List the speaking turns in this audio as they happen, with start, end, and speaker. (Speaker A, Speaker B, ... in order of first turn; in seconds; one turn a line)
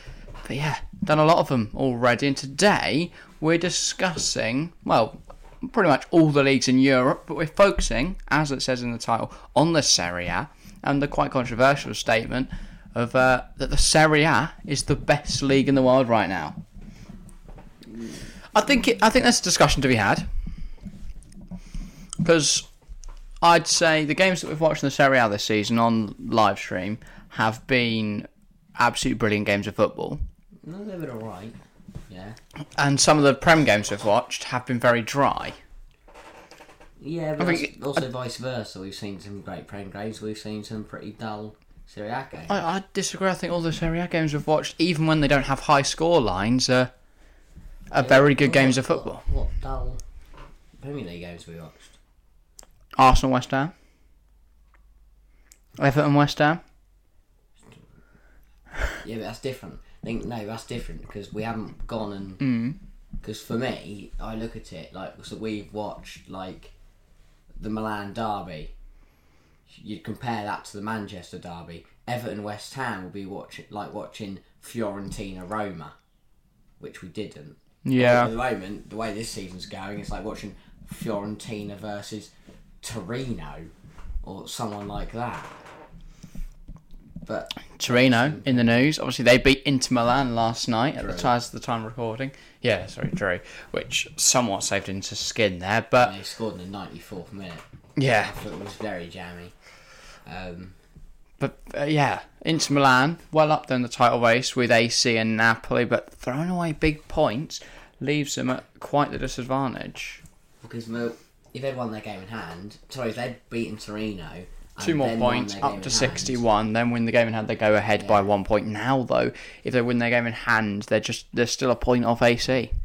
Speaker A: 0.4-16.6
Speaker A: 18.5-20.3
Speaker A: 22.2-22.7
Speaker A: 23.4-30.2
Speaker B: 30.6-31.6
Speaker B: 32.1-32.4
Speaker A: 32.8-35.6
Speaker B: 37.0-42.6
Speaker A: 37.4-37.8
Speaker A: 42.5-46.9
Speaker A: 47.9-49.2
Speaker B: 48.0-50.0
Speaker B: 50.8-52.0
Speaker A: 53.0-53.7
Speaker A: 55.8-56.6
Speaker B: 59.0-62.4
Speaker A: 62.4-62.8
Speaker B: 63.2-66.7
Speaker B: 67.6-68.7
Speaker B: 69.7-76.0
Speaker B: 76.8-83.7
Speaker A: 77.8-78.3
Speaker B: 84.2-85.6
Speaker B: 87.2-88.7
Speaker A: 87.8-96.2
Speaker B: 91.0-91.3
Speaker B: 96.0-99.5
Speaker A: 98.0-98.3
Speaker B: 100.3-100.8
Speaker A: 101.4-110.2
Speaker B: 110.6-116.4
Speaker A: 114.8-122.7
Speaker B: 118.0-118.3